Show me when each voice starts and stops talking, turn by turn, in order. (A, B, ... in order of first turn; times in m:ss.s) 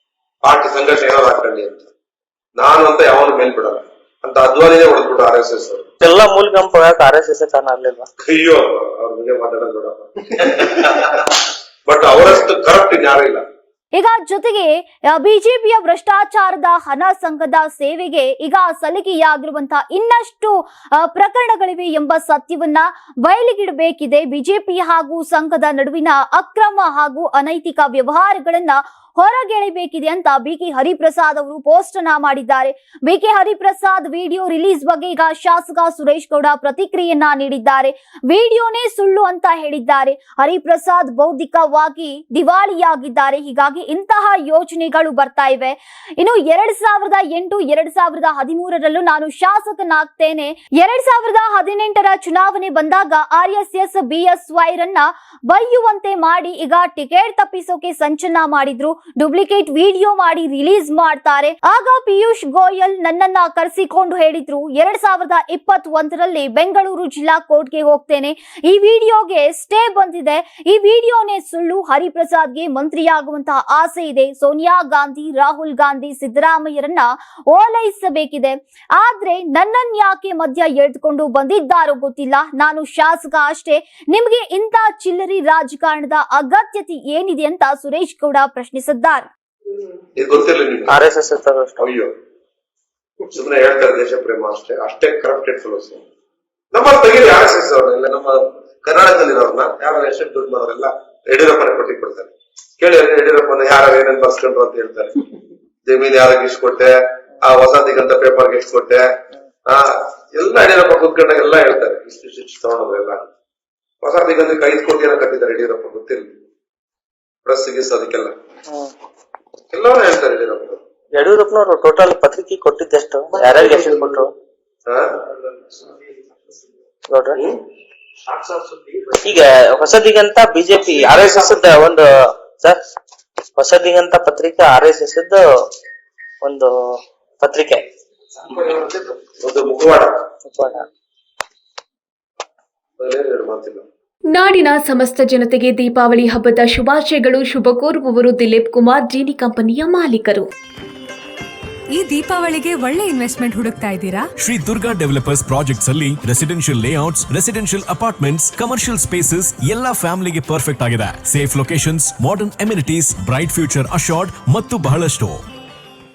0:00.4-0:01.9 A
0:02.6-0:05.9 A
0:06.0-0:08.1 B
0:08.3-0:13.4 A
0:13.9-1:29.3 C
1:30.2-1:31.0 A
1:30.9-1:31.8 B
1:31.8-1:32.1 A
1:33.3-1:36.0 A
1:36.7-1:45.2 A
1:45.8-1:49.1 A
1:49.7-1:53.3 A
1:54.0-1:56.2 A
1:57.4-1:58.3 A
1:59.7-2:00.8 A
2:01.1-2:04.3 B
2:04.8-2:05.2 A
2:07.1-2:07.4 B
2:07.4-2:07.6 A
2:09.2-2:12.8 B
2:13.6-2:15.4 B
2:16.4-2:17.8 B
2:18.5-2:20.1 A
2:20.5-2:20.8 B
2:23.0-2:23.8 A
2:24.3-2:30.5 D
2:31.9-2:34.3 E
2:34.4-2:45.4 F